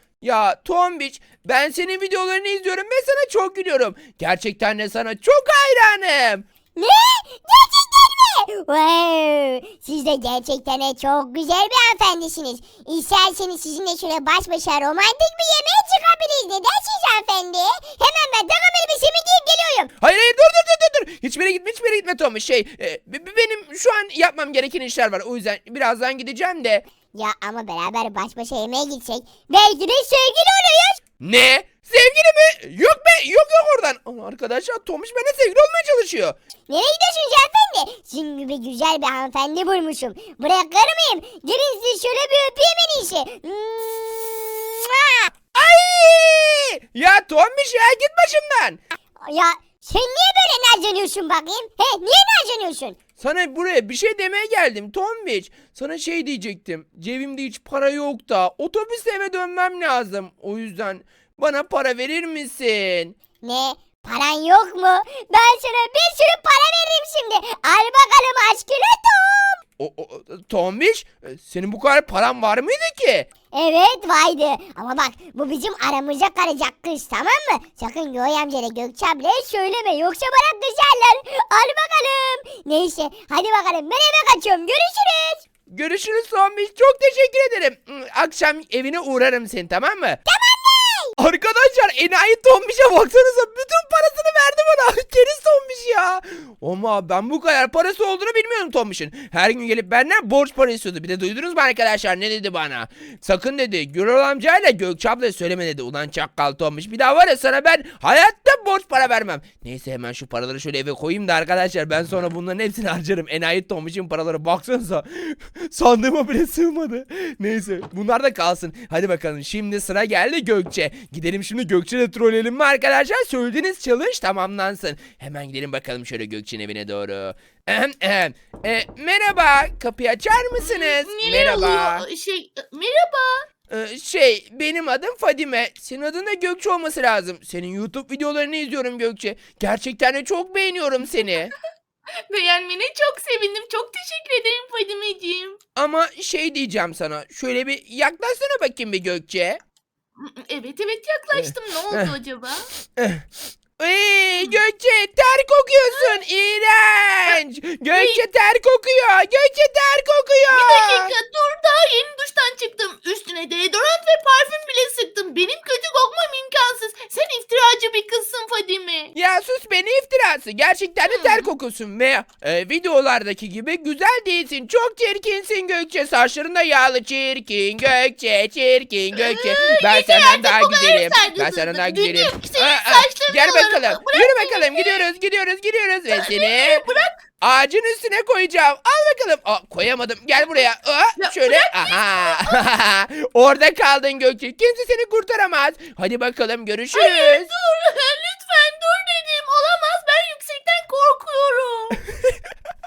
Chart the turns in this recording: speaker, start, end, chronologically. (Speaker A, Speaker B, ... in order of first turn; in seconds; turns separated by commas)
Speaker A: 0.2-6.5, Speaker B: 6.8-19.9, Speaker A: 20.0-26.9, Speaker B: 27.1-31.0, Speaker A: 31.2-36.4, Speaker B: 36.7-45.3, Speaker A: 45.5-48.8, Speaker B: 49.2-53.0, Speaker A: 53.2-63.2, Speaker B: 63.4-69.6, Speaker A: 69.8-73.3, Speaker B: 73.5-85.4, Speaker A: 85.7-90.2, Speaker B: 90.3-91.1, Speaker A: 91.2-132.1, Speaker C: 130.6-133.4, Speaker A: 133.7-141.5, Speaker C: 142.3-145.6, Speaker A: 145.8-149.6, Speaker C: 150.2-152.7, Speaker A: 151.3-152.2, Speaker A: 152.9-153.2, Speaker A: 153.8-161.2, Speaker C: 157.9-158.2, Speaker C: 160.5-169.1, Speaker A: 169.2-186.8, Speaker C: 171.1-171.5, Speaker C: 179.2-185.1, Speaker C: 186.1-187.1, Speaker A: 187.4-197.5, Speaker C: 191.2-192.6, Speaker C: 196.9-202.0